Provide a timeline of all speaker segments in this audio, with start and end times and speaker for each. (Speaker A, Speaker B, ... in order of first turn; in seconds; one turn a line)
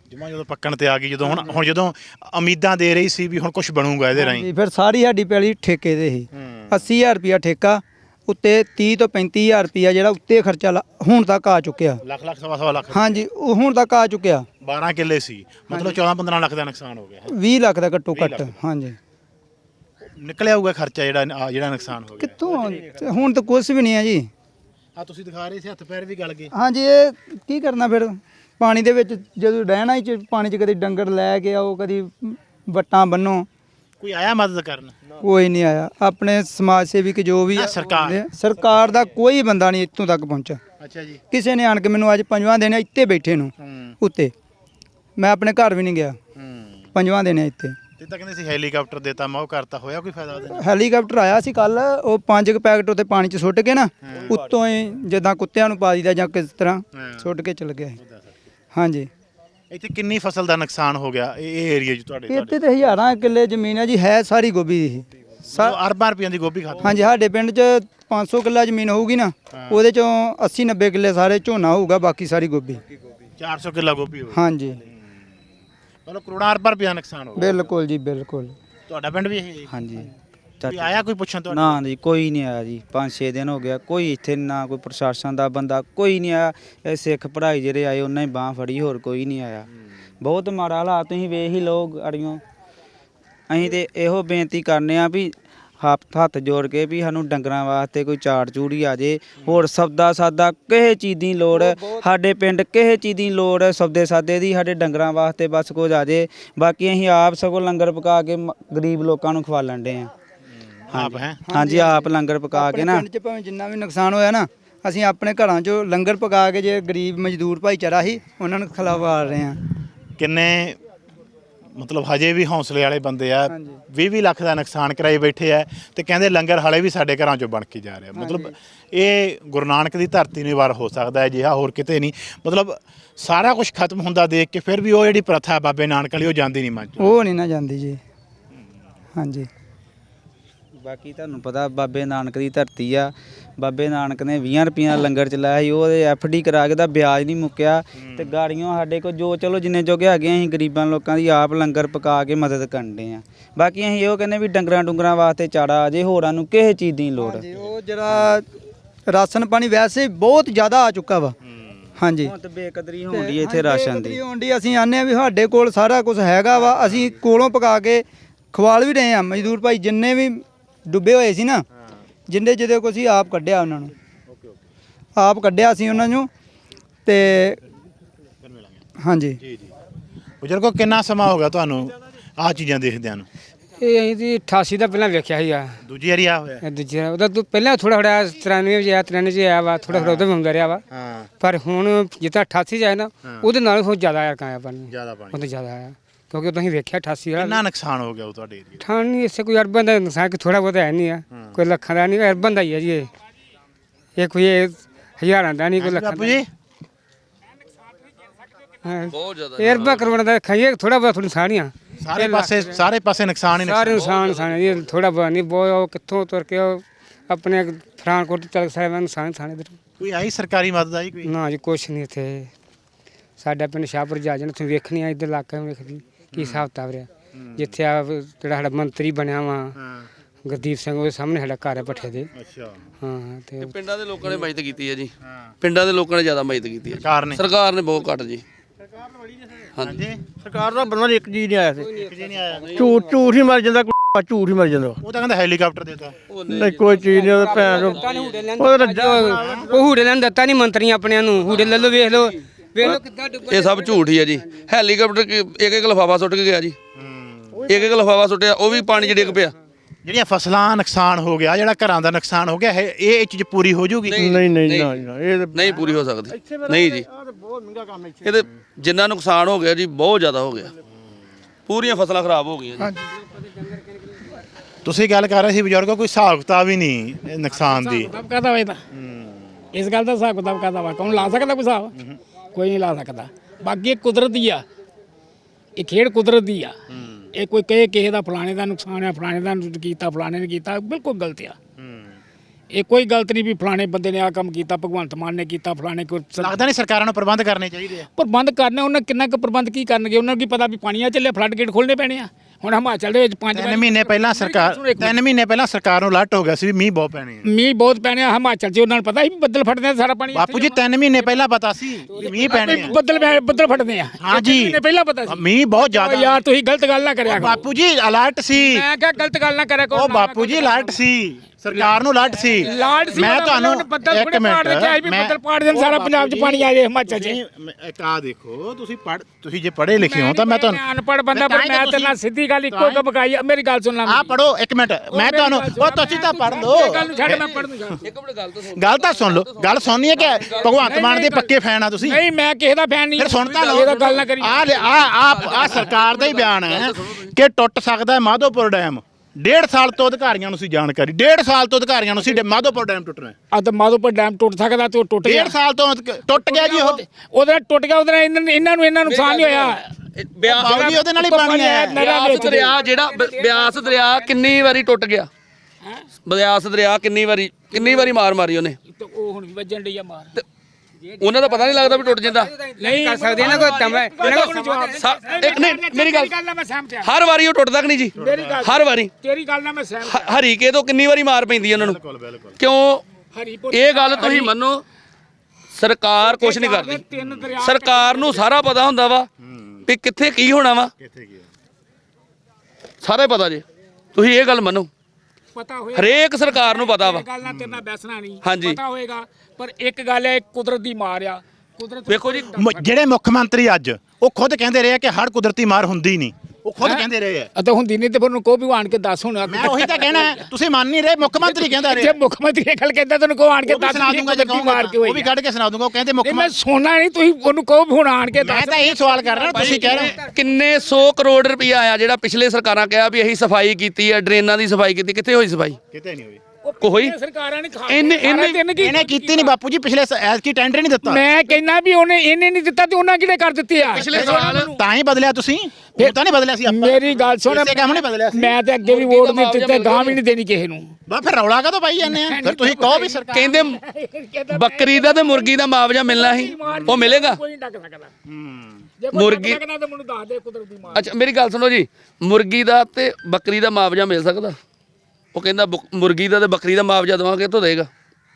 Speaker A: 0.1-4.5
Speaker B: 4.2-12.0
Speaker A: 6.3-6.8
Speaker A: 12.0-13.2
Speaker B: 12.9-14.5
Speaker A: 14.6-17.3
Speaker B: 15.7-15.9
Speaker B: 17.3-19.0
Speaker A: 18.1-18.5
Speaker A: 20.2-22.4
Speaker B: 22.2-24.3
Speaker A: 24.9-26.5
Speaker B: 26.5-33.5
Speaker A: 34.0-35.0
Speaker B: 35.2-40.6
Speaker A: 37.5-38.2
Speaker A: 40.8-41.2
Speaker B: 41.3-44.3
Speaker A: 43.6-43.9
Speaker B: 45.2-46.2
Speaker A: 46.4-46.9
Speaker B: 46.9-47.8
Speaker A: 48.0-50.6
Speaker B: 50.5-58.0
Speaker A: 56.9-57.2
Speaker A: 58.0-58.3
Speaker B: 58.7-59.1
Speaker A: 59.7-62.5
Speaker B: 62.3-65.8
Speaker A: 65.5-67.0
Speaker B: 66.8-72.8
Speaker A: 69.5-69.8
Speaker A: 73.4-74.4
Speaker B: 74.3-74.8
Speaker A: 76.0-77.5
Speaker B: 77.3-78.5
Speaker A: 78.9-79.7
Speaker C: 79.7-89.7
Speaker A: 80.7-81.8
Speaker C: 90.2-92.4
Speaker C: 93.5-110.1
Speaker B: 101.5-102.0
Speaker A: 110.9-111.4
Speaker C: 110.9-113.0
Speaker B: 111.4-119.6
Speaker A: 120.2-120.8
Speaker A: 121.8-137.1
Speaker B: 123.5-123.8
Speaker B: 128.2-128.5
Speaker B: 137.0-138.0
Speaker B: 139.2-139.5
Speaker C: 140.8-157.6
Speaker A: 148.0-148.3
Speaker B: 157.2-158.5
Speaker C: 158.1-158.4
Speaker B: 159.1-161.3
Speaker B: 162.0-162.3
Speaker C: 162.2-164.2
Speaker B: 163.1-171.6
Speaker B: 172.3-173.9
Speaker A: 174.3-174.6
Speaker B: 175.2-176.3
Speaker B: 177.1-177.6
Speaker A: 178.4-178.8
Speaker B: 179.0-179.4
Speaker A: 179.4-179.7
Speaker A: 180.4-183.3
Speaker D: 183.8-185.8
Speaker A: 185.8-186.6
Speaker D: 186.6-190.8
Speaker A: 189.9-190.2
Speaker A: 190.9-191.3
Speaker D: 191.4-197.6
Speaker A: 194.9-195.4
Speaker A: 197.3-198.8
Speaker D: 198.8-203.1
Speaker A: 201.3-201.6
Speaker D: 204.2-206.4
Speaker A: 205.8-206.5
Speaker D: 208.8-212.8
Speaker E: 209.1-210.1
Speaker A: 212.0-214.1
Speaker D: 213.5-219.7
Speaker E: 213.9-214.9
Speaker A: 220.0-221.3
Speaker D: 221.2-222.5
Speaker D: 223.4-229.8
Speaker A: 226.3-226.6
Speaker A: 227.3-227.6
Speaker A: 229.8-230.1
Speaker D: 230.4-232.3
Speaker A: 232.3-232.8
Speaker D: 233.0-233.7
Speaker E: 233.6-238.4
Speaker A: 235.3-235.5
Speaker A: 236.9-237.4
Speaker A: 239.8-240.2
Speaker F: 240.4-241.9
Speaker A: 241.9-242.8
Speaker F: 242.7-245.0
Speaker A: 245.0-246.2
Speaker E: 246.3-247.1
Speaker F: 246.5-248.0
Speaker D: 247.1-253.9
Speaker E: 247.8-248.4
Speaker F: 248.6-249.2
Speaker A: 249.2-249.7
Speaker E: 252.8-256.8
Speaker A: 256.9-257.7
Speaker E: 257.7-259.5
Speaker F: 258.9-259.2
Speaker A: 260.0-264.4
Speaker E: 264.1-267.1
Speaker F: 264.2-265.8
Speaker F: 266.4-268.2
Speaker E: 268.2-270.7
Speaker E: 271.7-272.9
Speaker A: 274.8-278.1
Speaker G: 277.6-278.8
Speaker A: 278.9-279.5
Speaker G: 279.7-281.9
Speaker G: 282.5-284.6
Speaker G: 285.8-286.8
Speaker A: 286.9-287.3
Speaker G: 287.3-291.6
Speaker A: 291.8-292.2
Speaker G: 292.7-296.6
Speaker A: 296.4-298.1
Speaker G: 298.1-305.1
Speaker A: 303.5-307.4
Speaker G: 307.4-310.8
Speaker A: 310.3-313.0
Speaker D: 312.3-312.6
Speaker G: 312.4-317.7
Speaker A: 314.2-316.4
Speaker A: 317.2-318.9
Speaker G: 318.5-320.9
Speaker A: 319.9-332.1
Speaker G: 322.6-327.4
Speaker G: 329.9-334.4
Speaker A: 332.7-333.0
Speaker A: 334.0-337.5
Speaker G: 335.1-338.0
Speaker E: 336.9-340.9
Speaker A: 338.7-342.2
Speaker G: 340.8-344.7
Speaker A: 343.1-353.4
Speaker E: 343.4-347.3
Speaker G: 353.5-355.6
Speaker A: 355.2-357.0
Speaker G: 356.3-359.9
Speaker E: 359.0-361.0
Speaker A: 360.4-362.0
Speaker G: 360.6-362.8
Speaker E: 361.9-365.3
Speaker E: 366.2-368.8
Speaker G: 367.7-368.1
Speaker G: 368.9-370.4
Speaker E: 371.2-372.6
Speaker G: 372.7-377.1
Speaker D: 372.8-374.9
Speaker E: 374.2-376.3
Speaker E: 377.0-379.1
Speaker A: 378.1-378.7
Speaker G: 378.2-380.3
Speaker E: 380.0-382.0
Speaker A: 381.7-382.6
Speaker E: 382.6-383.0
Speaker G: 383.3-384.5
Speaker E: 383.7-384.8
Speaker E: 385.7-387.0
Speaker G: 386.2-388.4
Speaker A: 387.1-387.5
Speaker E: 387.6-389.3
Speaker A: 389.4-389.9
Speaker E: 389.8-390.9
Speaker A: 391.0-391.5
Speaker E: 393.0-394.9
Speaker G: 395.5-402.9
Speaker E: 395.9-397.2
Speaker A: 397.4-397.8
Speaker E: 398.4-398.8
Speaker E: 402.1-402.6
Speaker A: 402.6-407.5
Speaker G: 406.8-410.5
Speaker A: 409.4-412.1
Speaker G: 411.4-415.3
Speaker A: 413.6-416.5
Speaker G: 416.2-420.1
Speaker A: 418.4-420.2
Speaker E: 419.6-425.8
Speaker A: 425.9-426.4
Speaker G: 426.6-429.6
Speaker E: 426.8-427.1
Speaker E: 427.9-428.7
Speaker A: 428.8-431.4
Speaker G: 431.0-434.8
Speaker E: 433.8-434.7
Speaker A: 433.9-438.6
Speaker G: 435.9-440.9
Speaker E: 438.8-440.2
Speaker A: 441.1-443.6
Speaker G: 442.0-445.5
Speaker E: 443.3-443.8
Speaker E: 444.5-447.4
Speaker G: 446.0-448.1
Speaker A: 446.7-447.0
Speaker A: 448.3-448.9
Speaker G: 449.0-451.1
Speaker E: 449.1-449.6
Speaker E: 450.9-454.6
Speaker E: 455.3-457.9